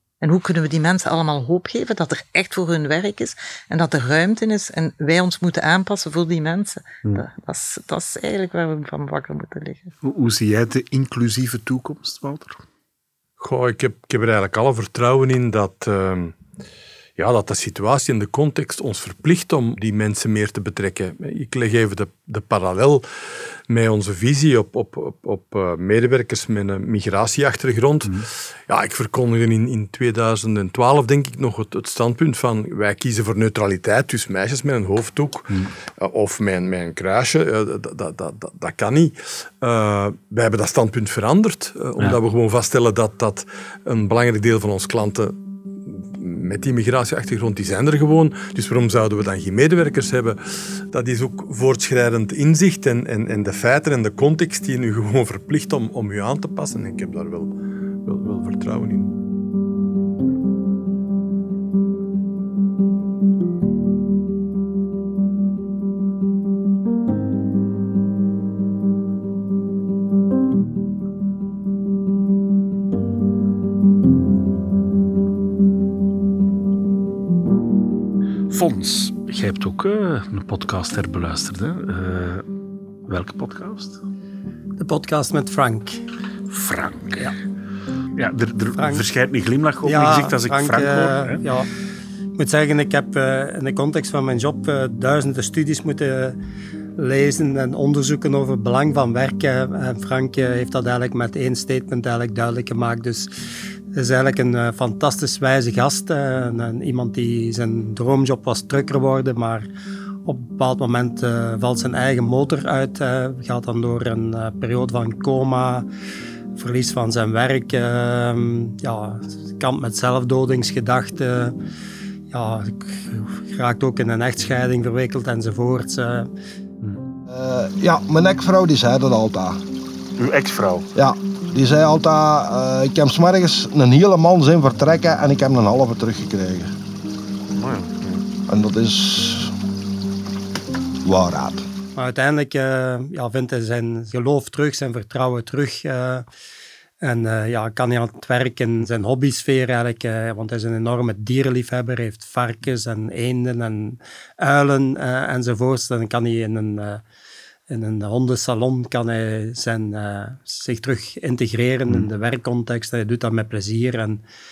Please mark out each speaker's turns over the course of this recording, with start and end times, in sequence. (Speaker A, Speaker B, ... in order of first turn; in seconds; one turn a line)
Speaker A: 0.2-9.9
Speaker B: 10.0-12.6
Speaker C: 13.4-16.4
Speaker C: 17.1-59.1
Speaker B: 78.5-82.4
Speaker B: 83.1-84.0
Speaker D: 84.8-86.0
Speaker B: 86.5-87.3
Speaker B: 88.2-91.4
Speaker D: 88.8-89.0
Speaker D: 89.8-91.7
Speaker D: 92.4-96.3
Speaker D: 97.0-103.3
Speaker D: 103.9-109.7
Speaker D: 110.2-115.8
Speaker D: 116.5-121.5
Speaker D: 122.3-126.3
Speaker B: 126.8-127.0
Speaker E: 127.3-129.6
Speaker B: 130.2-130.9
Speaker E: 130.9-136.7
Speaker B: 137.5-138.2
Speaker E: 138.5-139.5
Speaker E: 141.0-141.7
Speaker D: 141.9-146.2
Speaker D: 147.0-157.0
Speaker D: 157.7-164.2